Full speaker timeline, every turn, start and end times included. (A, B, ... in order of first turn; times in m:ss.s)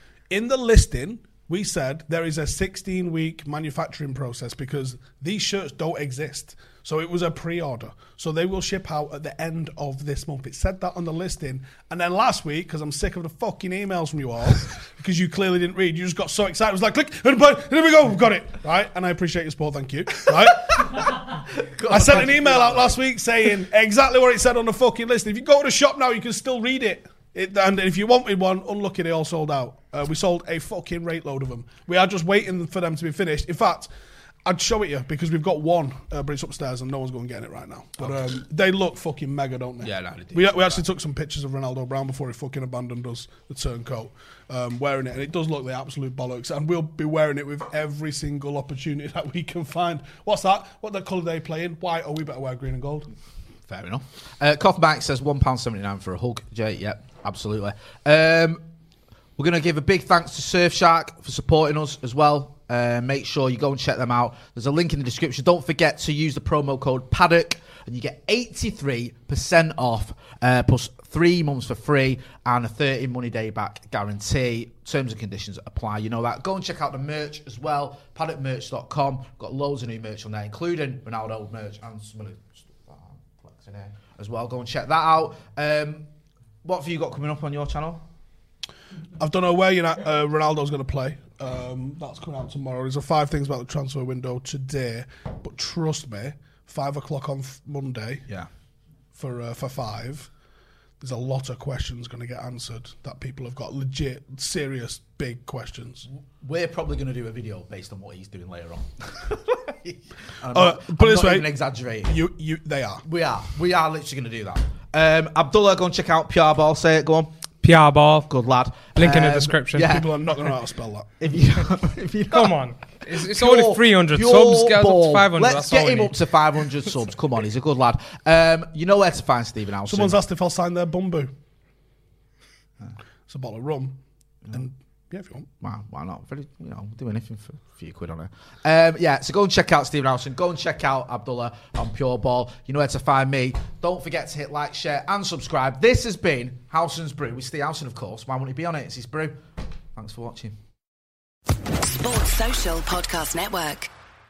0:00.3-0:21.1 A
0:21.5-0:23.0 B
0:21.9-0:33.9 A
0:34.4-0:53.1 A
0:38.0-0:38.2 B
0:39.8-0:40.8 B
0:53.7-0:58.6 B
0:59.4-1:26.0 B
1:26.6-1:28.0 B
1:29.2-1:38.2 A
1:39.1-1:40.3 A
1:41.0-1:46.1 A
1:46.4-1:52.2 B
1:50.5-1:51.5 A
1:52.0-1:53.0 A
1:53.0-1:57.3 B
1:57.6-1:58.3 C
1:58.3-2:00.1 B
1:58.9-1:59.9 C
1:59.8-2:01.1 A
2:01.2-2:10.2 B
2:02.3-2:06.1 C
2:09.8-2:11.3 A
2:13.3-2:15.5 A
2:15.6-2:29.4 B
2:29.9-2:30.5 B
2:31.8-2:33.9 D